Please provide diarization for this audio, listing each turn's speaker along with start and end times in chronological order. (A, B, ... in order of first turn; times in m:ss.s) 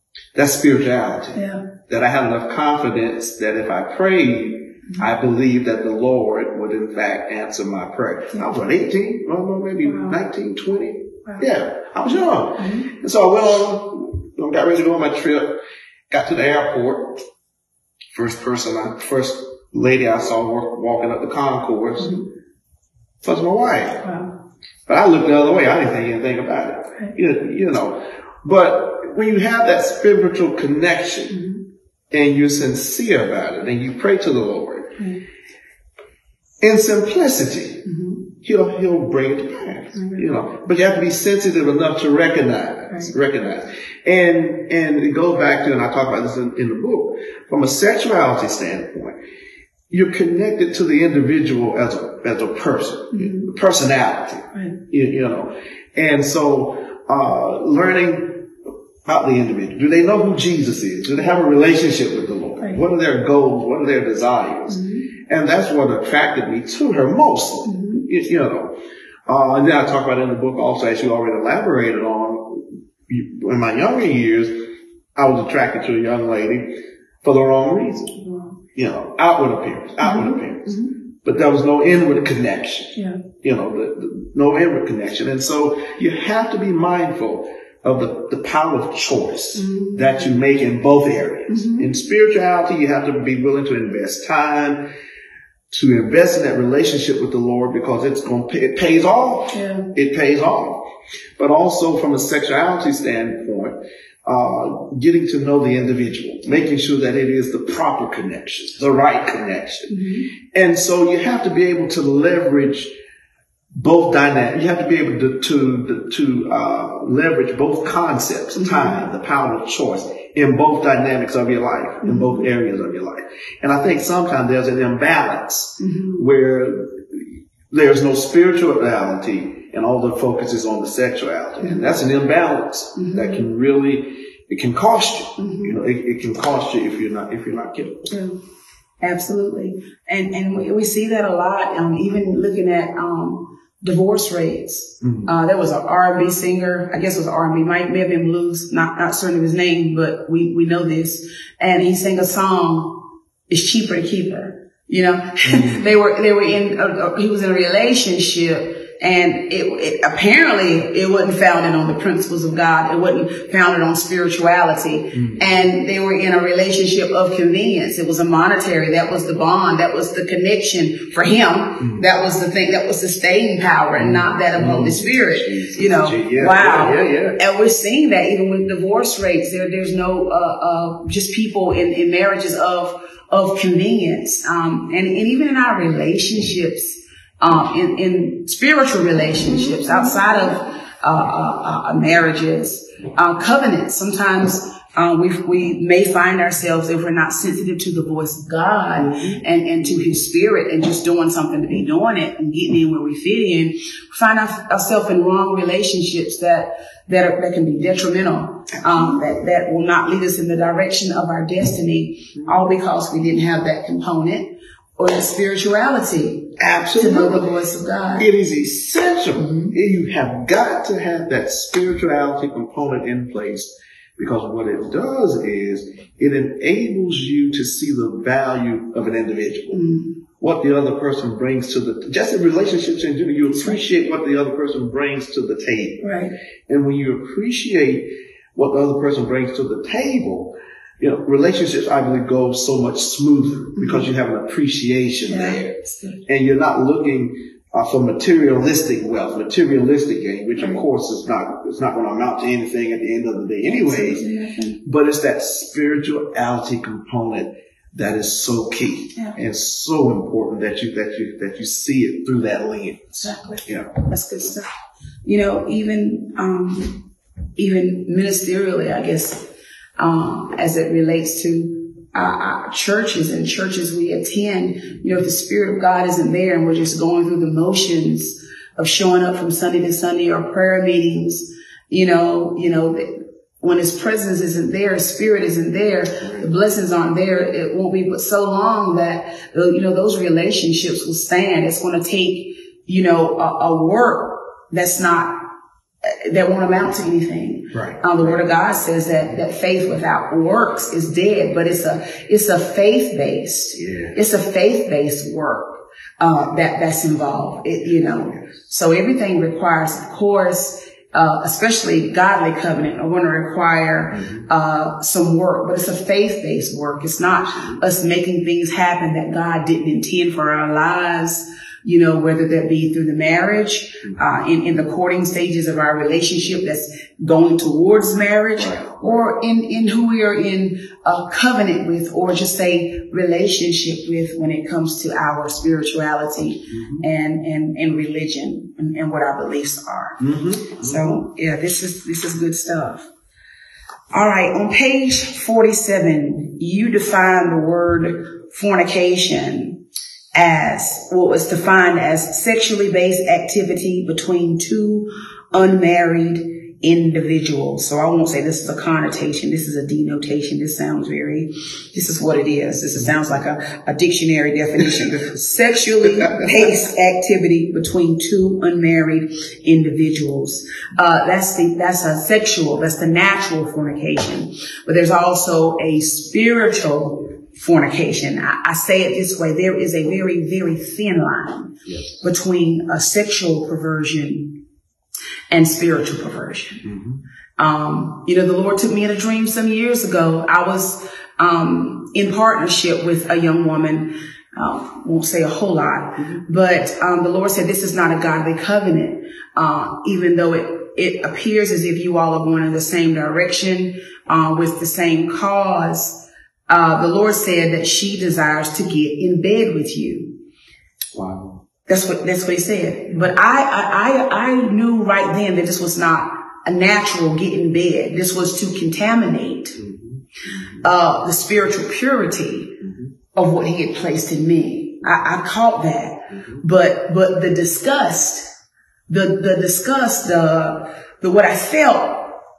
0:00.3-0:15.6 A
0:01.3-0:01.6 B
0:09.8-0:10.1 B
0:12.6-0:12.9 B
0:16.1-0:17.2 A
0:18.1-0:22.1 A
0:23.2-0:24.1 A
0:24.0-0:24.3 B
0:24.9-0:31.4 A
0:31.3-0:31.6 B
0:32.1-0:35.0 A
0:36.6-0:37.9 A
0:37.8-0:38.2 B
0:38.4-0:49.2 A
0:39.9-0:40.2 B
0:49.9-0:58.5 A
0:53.1-0:53.5 B
0:59.0-1:18.2 A
1:04.7-1:05.0 B
1:07.6-1:08.0 B
1:18.2-1:18.5 B
1:18.7-1:34.9 A
1:20.0-1:20.9 B
1:23.0-1:23.2 B
1:29.5-1:30.2 B
1:31.5-1:31.9 B
1:35.7-1:52.9 A
1:39.5-1:39.9 B
1:49.9-1:50.3 B
1:53.8-2:18.1 A
1:58.6-1:58.9 B
2:05.8-2:06.2 B
2:11.6-2:12.0 B
2:13.0-2:13.4 B
2:15.4-2:15.8 B
2:18.1-2:18.4 B
2:19.0-3:38.3 B
2:25.0-2:25.3 A
2:35.4-2:35.8 A
2:45.1-2:45.4 A
2:54.0-2:57.4 A
3:19.0-3:19.4 A
3:28.9-3:29.1 A
3:36.6-3:37.4 A
3:38.2-3:49.8 A
3:39.4-3:39.7 B
3:49.7-3:50.2 B
3:50.4-3:56.1 A
3:56.0-3:56.3 B
3:56.7-4:14.2 A
4:03.8-4:04.1 B
4:05.3-4:06.2 B
4:13.6-4:14.8 B
4:14.8-4:24.0 A
4:23.2-4:24.7 B
4:25.2-4:29.5 B
4:30.0-4:55.5 B
4:56.0-5:40.2 B
4:57.7-4:58.4 A
5:03.8-5:04.1 A
5:14.1-5:14.4 A
5:28.6-5:29.2 A
5:36.7-5:37.0 A
5:40.2-5:41.2 A
5:40.7-5:43.1 B
5:44.1-5:49.8 B
5:50.3-6:24.6 B
6:25.5-6:26.9 B
6:26.8-6:27.2 A
6:27.6-6:50.4 B
6:51.1-6:51.6 A
6:51.9-6:59.8 B
6:59.8-7:00.7 A
7:00.8-7:02.8 B
7:02.8-7:03.1 A
7:03.3-7:08.5 B
7:06.3-7:06.6 A
7:09.1-7:12.4 B